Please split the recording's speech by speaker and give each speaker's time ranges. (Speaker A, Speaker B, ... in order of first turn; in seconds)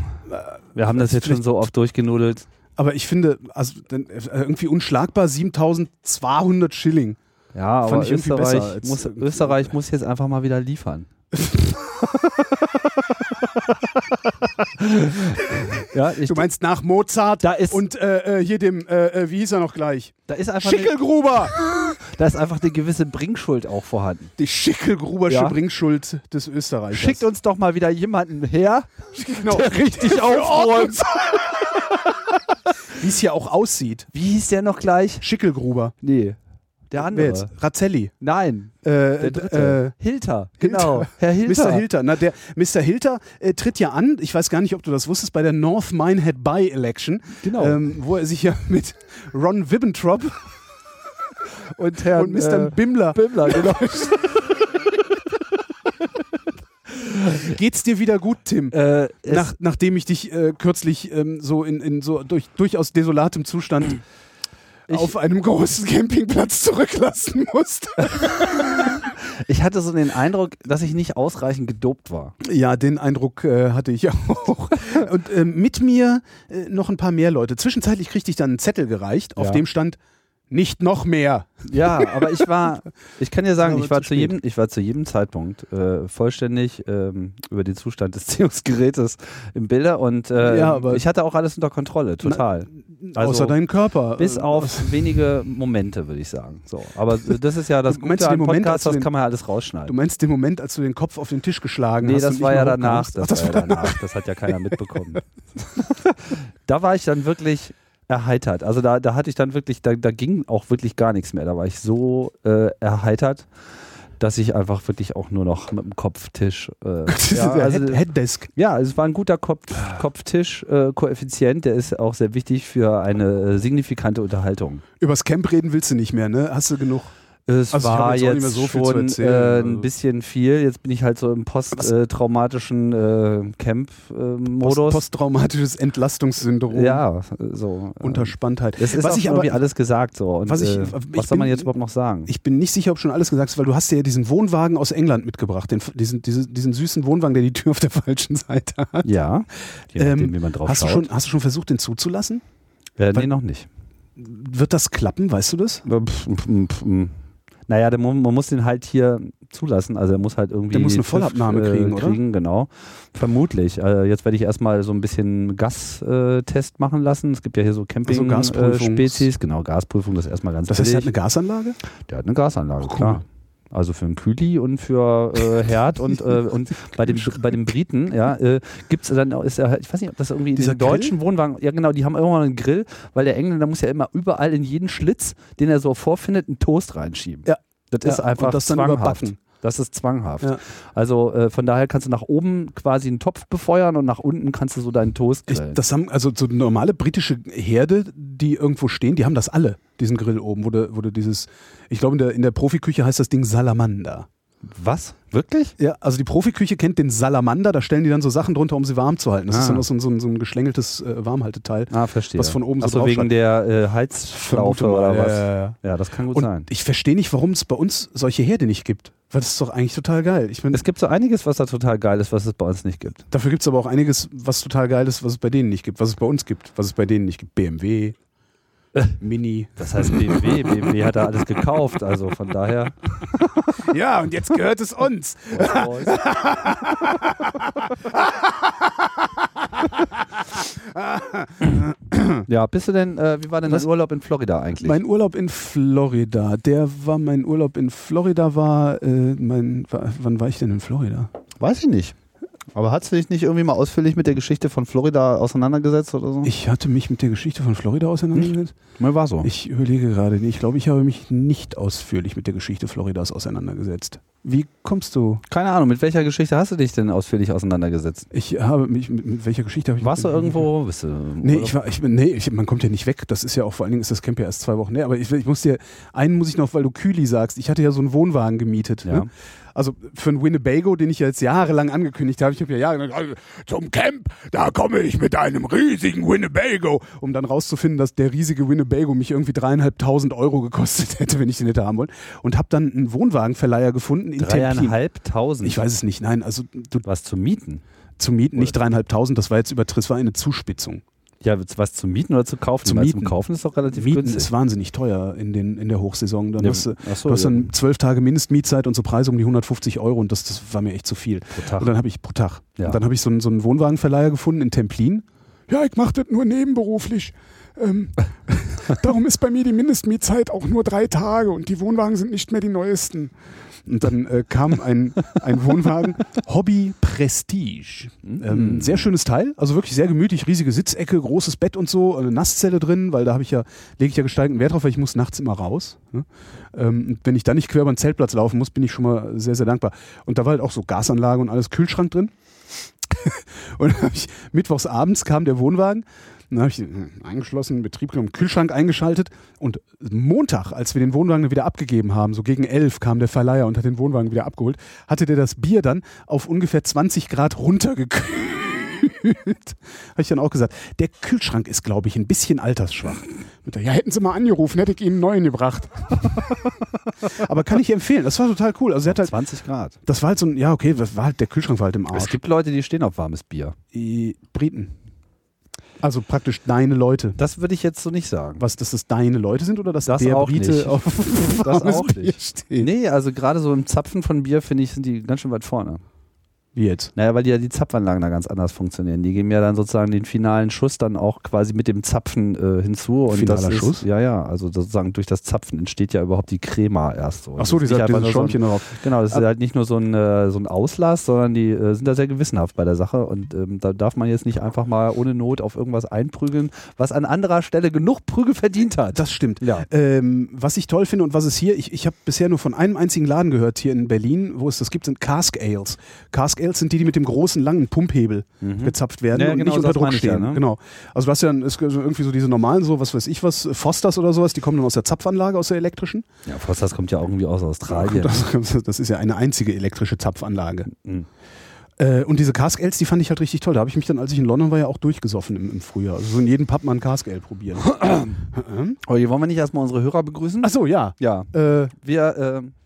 Speaker A: 0.2-1.6, 2.8-7.2, 7.8-9.7, 11.4-11.8, 15.5-21.5, 24.4-27.3, 29.1-31.8, 32.9-34.1, 35.2-36.0, 37.0-38.1, 38.8-40.0, 40.6-50.4, 52.0-54.4, 57.4-64.0, 64.9-68.9, 72.4-80.0, 80.5-82.5, 83.6-84.3, 90.3-91.0, 92.2-95.0, 97.8-99.1, 99.8-105.2, 117.1-118.5, 125.0-127.1, 127.7-129.9, 134.6-137.0, 138.0-139.6, 140.4-141.7, 142.2-149.1, 149.9-152.4, 154.2-155.8, 160.7-162.2, 168.0-169.3, 170.7-171.8, 172.8-173.2, 180.6-181.2, 187.4-189.4, 195.5-204.3, 205.8-213.3, 214.3-215.8, 216.3-220.8, 223.3-228.2, 229.2-230.9, 233.7-242.4, 244.8-251.3, 256.4-258.7, 259.4-265.4, 268.3-270.7, 271.4-295.0, 295.6-297.1, 298.2-301.0, 302.8-303.4, 303.9-323.3, 323.8-342.3, 343.1-369.4, 370.1-372.4, 373.9-374.9, 376.0-377.4, 378.6-382.9, 386.7-387.1, 393.3-394.1, 397.6-399.5, 409.1-426.3, 427.9-430.9, 432.0-439.0, 440.6-441.9
Speaker B: 0.7-2.5, 7.5-11.1, 14.8-16.5, 17.4-17.9, 20.3-20.9, 22.1-24.3, 25.3-25.6, 26.9-31.0, 34.1-35.2, 36.0-36.4, 36.9-37.5, 38.2-41.8, 47.4-47.8, 51.7-54.4, 57.0-57.5, 58.7-59.5, 64.9-65.1, 68.0-72.3, 79.4-79.6, 81.7-93.6, 94.2-99.9, 102.0-105.2, 105.8-113.5, 114.2-124.8, 127.5-135.1, 136.7-142.3, 149.0-151.1, 153.0-153.7, 155.8-157.2, 157.7-171.1, 172.1-195.8, 204.7-205.8, 209.5-209.8, 211.9-216.7, 220.7-223.2, 229.8-233.8, 235.5-236.3, 242.5-245.0, 251.6-252.2, 252.7-256.5, 258.3-259.5, 265.5-268.3, 270.0-271.7, 294.4-295.8, 297.0-297.8, 301.4-304.5, 306.6-307.7, 311.6-311.9, 328.2-329.1, 369.1-369.9, 372.1-373.8, 377.4-378.6, 380.0-386.0, 387.1-409.9, 418.6-420.6, 426.4-428.4, 430.9-431.3, 437.9-438.3, 439.1-442.7